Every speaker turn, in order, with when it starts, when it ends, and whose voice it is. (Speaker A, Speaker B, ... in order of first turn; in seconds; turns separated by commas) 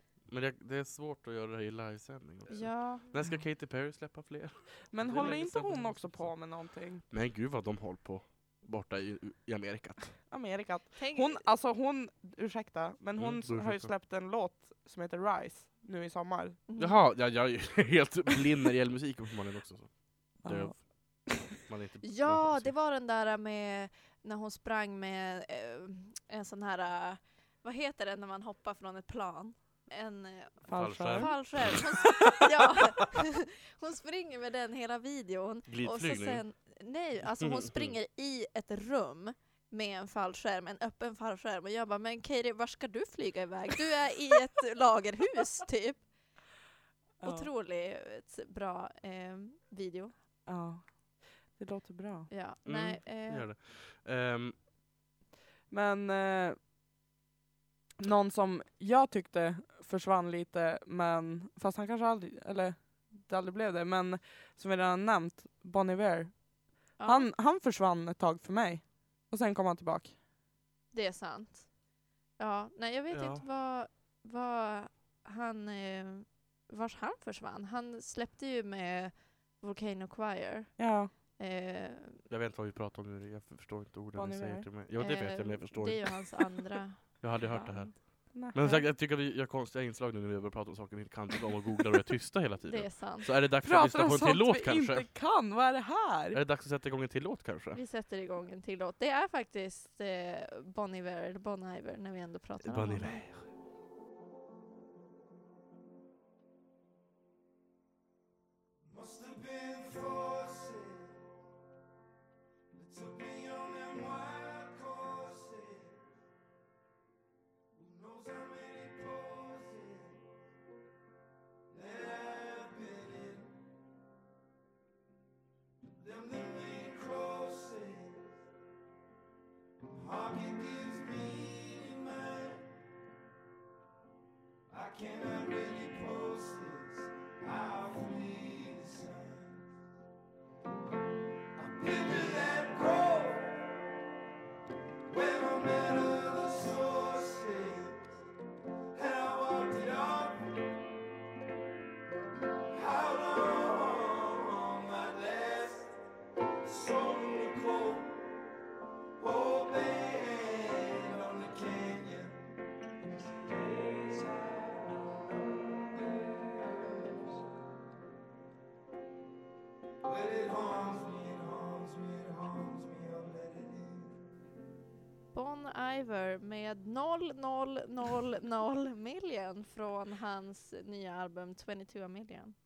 Speaker A: 0.2-6.4, Speaker B: 2.5-3.1, Speaker C: 4.9-7.0, Speaker A: 7.1-10.1, Speaker C: 10.3-16.6, Speaker B: 10.9-11.4, Speaker A: 13.2-13.9, Speaker B: 16.7-17.0, Speaker A: 16.8-22.7, Speaker C: 20.4-21.3, Speaker B: 22.0-46.0, Speaker C: 30.6-31.4, Speaker A: 30.7-32.7, Speaker A: 35.7-36.4, Speaker A: 37.4-38.0, Speaker C: 47.2-47.5, Speaker B: 47.2-50.1, Speaker C: 50.5-52.3, Speaker B: 52.3-53.5, Speaker A: 52.6-54.6, Speaker C: 55.7-56.6, Speaker C: 58.0-66.4, Speaker B: 67.0-67.3, Speaker C: 67.0-70.2, Speaker B: 70.9-71.7, Speaker B: 72.4-82.2, Speaker A: 73.1-73.4, Speaker C: 80.8-81.1, Speaker A: 82.3-86.2, Speaker C: 84.1-84.7, Speaker B: 85.0-88.0, Speaker A: 87.2-95.1, Speaker C: 88.3-88.6, Speaker B: 88.6-88.8, Speaker B: 92.7-93.3, Speaker C: 93.6-96.4, Speaker A: 96.3-97.8, Speaker B: 97.7-103.2, Speaker A: 102.6-103.5, Speaker D: 108.9-111.2, Speaker D: 112.7-116.0, Speaker D: 117.7-120.2, Speaker D: 121.7-123.6, Speaker D: 126.0-128.4, Speaker D: 129.9-132.7, Speaker D: 134.7-139.7, Speaker D: 141.6-143.6, Speaker D: 145.1-148.1, Speaker D: 148.9-150.5, Speaker D: 152.7-155.9, Speaker D: 156.6-158.3, Speaker D: 159.2-162.4, Speaker D: 163.5-164.6, Speaker D: 170.0-174.1, Speaker B: 175.3-182.5